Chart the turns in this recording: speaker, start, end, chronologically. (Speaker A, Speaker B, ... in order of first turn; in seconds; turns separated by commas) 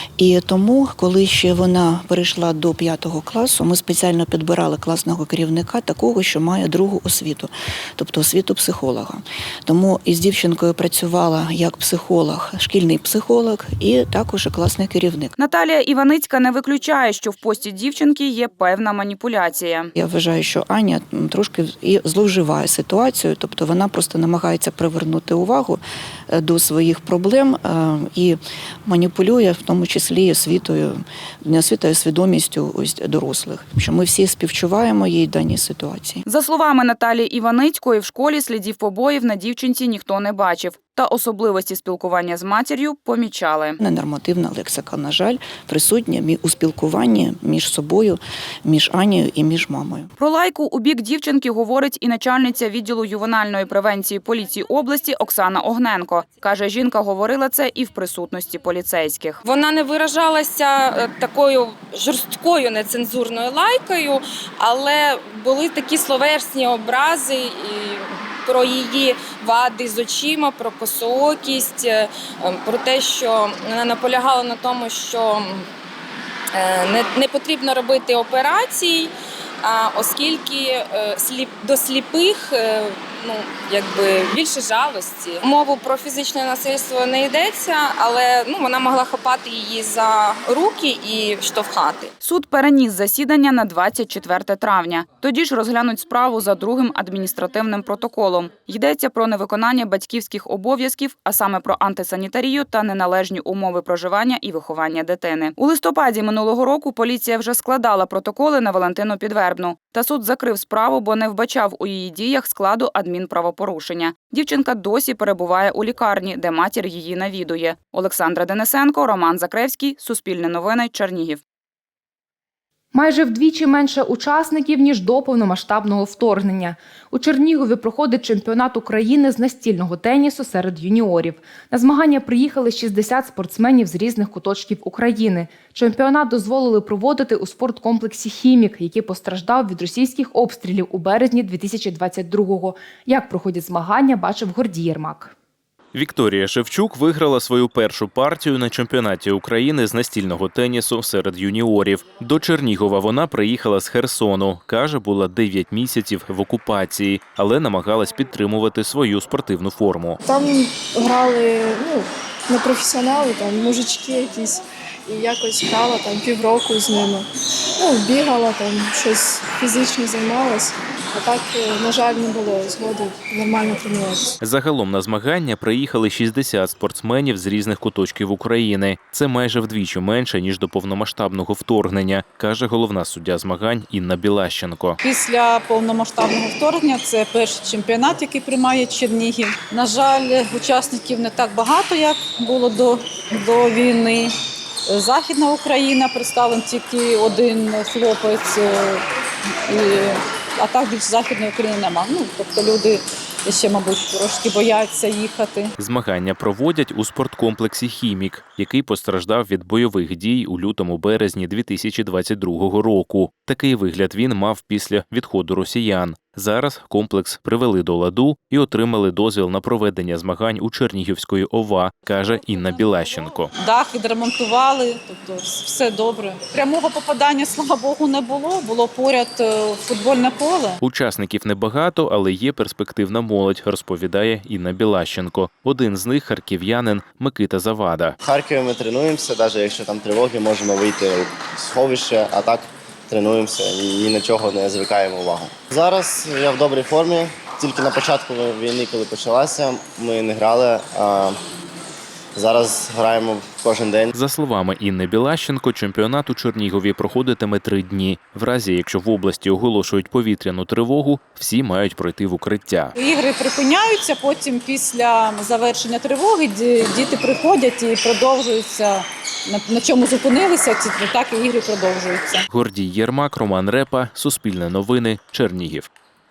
Speaker A: 0.2-15.3, Speaker B: 15.4-19.9, Speaker A: 19.9-36.2, Speaker B: 36.3-43.8, Speaker A: 43.8-50.1, Speaker B: 50.2-59.4, Speaker C: 59.4-75.6, Speaker C: 76.6-79.1, Speaker C: 79.6-92.1, Speaker B: 92.2-121.4, Speaker D: 122.9-145.3, Speaker E: 145.9-160.2, Speaker F: 160.2-167.2, Speaker F: 167.8-174.3, Speaker E: 174.4-185.0, Speaker G: 185.0-194.3, Speaker G: 194.9-199.0, Speaker G: 199.7-205.7, Speaker E: 205.8-223.5, Speaker G: 223.6-230.8, Speaker E: 230.8-238.2, Speaker H: 238.2-251.4, Speaker H: 252.3-254.1, Speaker E: 254.1-262.9, Speaker G: 262.9-272.4, Speaker E: 272.5-275.9